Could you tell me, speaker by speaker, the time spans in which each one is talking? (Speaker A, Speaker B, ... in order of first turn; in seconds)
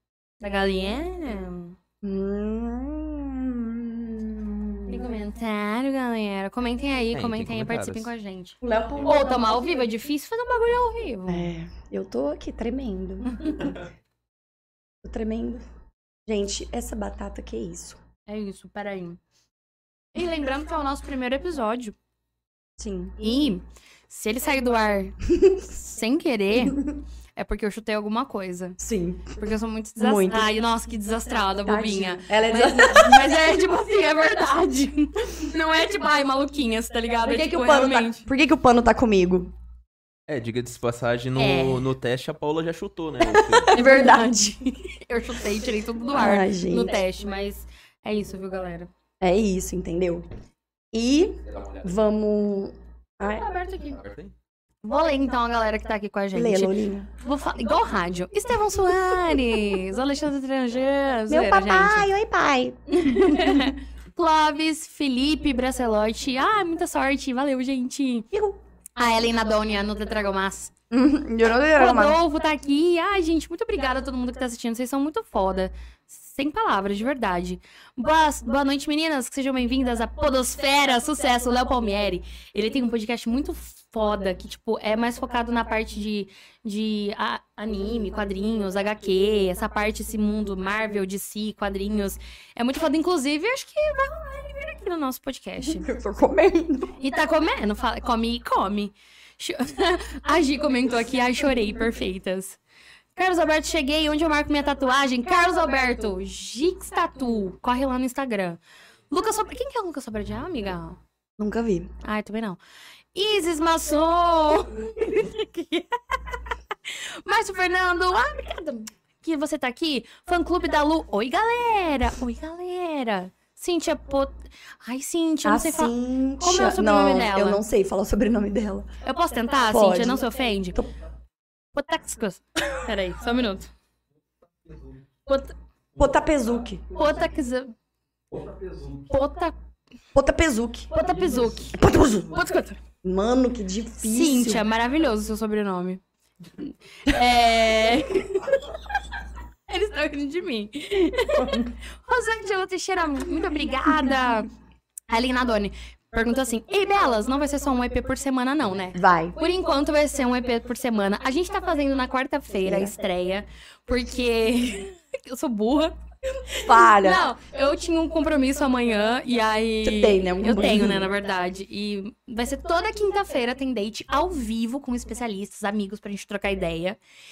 Speaker A: 0.4-1.8, 4.9-11.5, 13.2-13.7, 18.3-19.2, 20.1-21.9, 23.2-28.8, 29.3-38.2, 41.4-41.9, 43.7-48.9, 53.2-54.0, 54.8-62.1, 62.9-70.7, 71.8-95.9, 97.0-102.6, 103.1-111.0, 112.0-112.6, 113.2-127.6, 129.0-130.8, 131.7-133.7, 135.3-135.5, 136.9-137.7, 139.1-139.5, 140.9-142.8, 144.0-146.0, 146.6-148.6, 149.7-154.5, 155.1-177.0
Speaker B: 2.0-5.1, 8.6-9.4, 11.3-13.7, 15.0-15.6, 16.3-18.0, 22.8-23.2, 28.8-29.3, 30.0-30.5, 31.6-33.4, 37.2-39.5, 43.2-44.6, 46.1-47.0, 49.2-50.2, 50.9-53.4, 56.3-57.1, 61.3-63.7, 70.9-72.2, 95.6-97.0, 111.4-111.9, 125.4-128.9, 129.7-130.2, 136.0-136.8, 140.1-140.9, 141.7-142.3, 143.0-144.6, 158.9-159.4, 162.6-162.9, 166.6-167.3, 169.8-171.0
Speaker C: 7.1-8.1, 40.3-43.8, 54.0-54.3, 138.3-139.0